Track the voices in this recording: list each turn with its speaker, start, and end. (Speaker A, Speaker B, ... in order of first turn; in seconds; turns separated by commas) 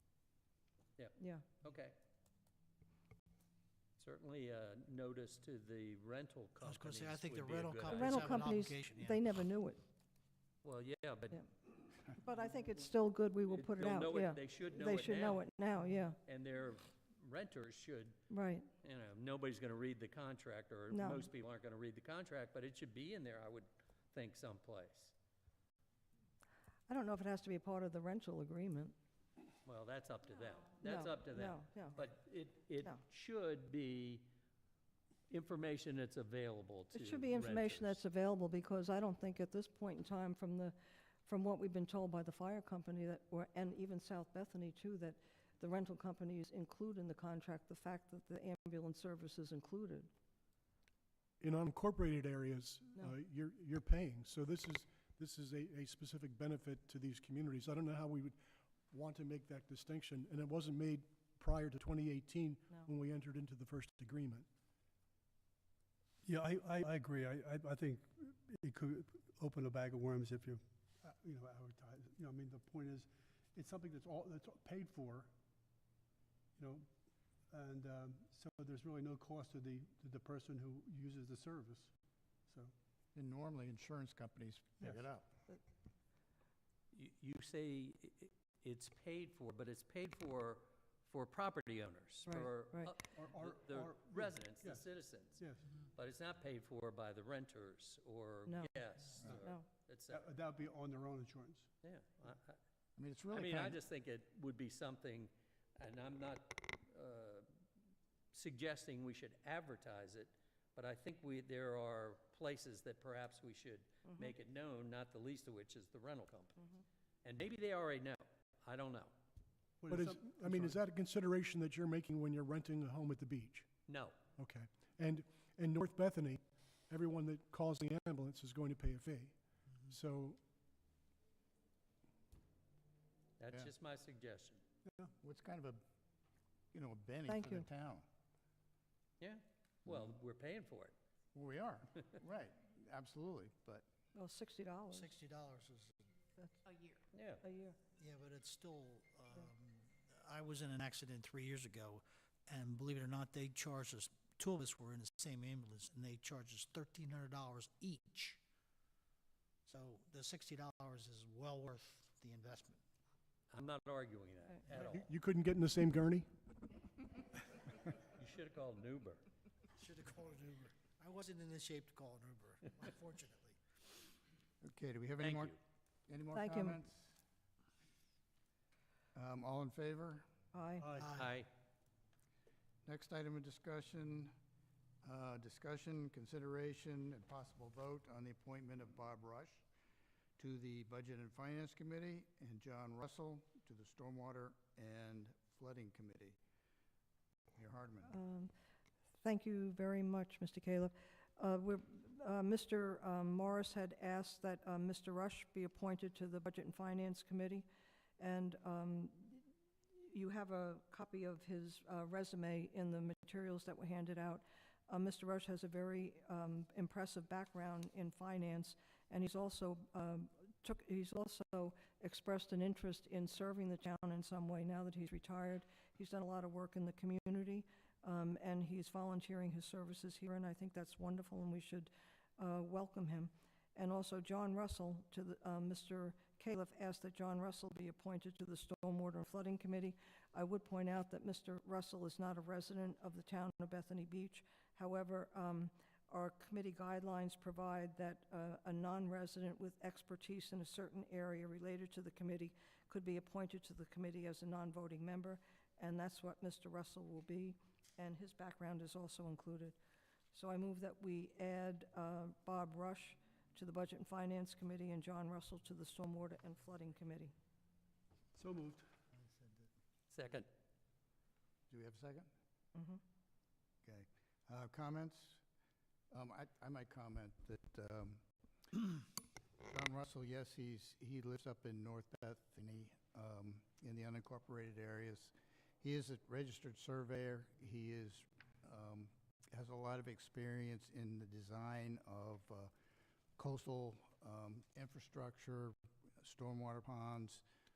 Speaker A: 1.0-1.9, Speaker B: 1.2-1.4, Speaker A: 4.0-8.5, Speaker C: 6.6-9.2, Speaker B: 7.9-9.8, Speaker A: 10.6-11.4, Speaker B: 12.2-16.2, Speaker A: 13.5-15.4, Speaker A: 16.2-18.2, Speaker B: 18.3-18.7, Speaker A: 18.8-25.1, Speaker B: 20.9-21.3, Speaker B: 26.9-28.9, Speaker A: 29.7-34.3, Speaker B: 30.8-32.0, Speaker A: 35.3-38.0, Speaker B: 36.9-50.1, Speaker D: 51.4-64.5, Speaker E: 66.2-75.3, Speaker E: 76.6-76.9, Speaker E: 77.5-81.9, Speaker E: 82.5-82.7, Speaker F: 83.1-85.4, Speaker E: 84.8-85.1, Speaker A: 86.9-100.3, Speaker B: 92.3-92.9, Speaker E: 93.1-94.9, Speaker E: 95.4-95.7, Speaker B: 98.5-98.7, Speaker E: 99.2-99.5, Speaker B: 99.4-99.7, Speaker E: 100.1-101.7, Speaker A: 101.8-102.6, Speaker F: 103.0-103.8, Speaker A: 103.3-107.5, Speaker A: 108.3-116.7, Speaker A: 117.2-119.1, Speaker E: 119.8-120.8, Speaker D: 119.9-123.7, Speaker A: 123.9-124.2, Speaker D: 124.4-130.4, Speaker A: 133.4-134.6, Speaker E: 134.9-135.1, Speaker F: 135.2-135.8, Speaker F: 136.7-138.1, Speaker B: 137.3-137.7, Speaker A: 139.2-140.9, Speaker F: 141.3-143.9, Speaker B: 144.1-145.2, Speaker C: 144.9-145.9, Speaker B: 146.4-147.8, Speaker A: 147.1-147.4, Speaker C: 148.0-158.4, Speaker C: 159.7-162.8, Speaker A: 163.5-165.1, Speaker D: 164.7-166.3, Speaker A: 168.2-169.2, Speaker C: 169.8-173.6, Speaker F: 174.6-175.6, Speaker A: 175.2-175.6, Speaker F: 176.1-177.1, Speaker B: 176.3-176.8, Speaker F: 179.1-180.3, Speaker B: 180.5-180.9, Speaker E: 180.8-181.1, Speaker C: 181.0-181.3, Speaker A: 181.1-181.5, Speaker F: 182.8-184.3, Speaker F: 185.0-189.7, Speaker F: 190.4-196.4, Speaker F: 197.6-198.2, Speaker B: 198.1-198.5, Speaker B: 199.2-207.7, Speaker B: 208.2-209.4, Speaker B: 210.0-259.8, Speaker B: 260.3-267.3, Speaker E: 268.3-268.9, Speaker A: 270.1-270.5, Speaker F: 271.7-272.3, Speaker B: 272.8-273.0, Speaker F: 273.8-275.4, Speaker F: 276.1-279.1, Speaker F: 279.6-292.7, Speaker F: 293.4-297.4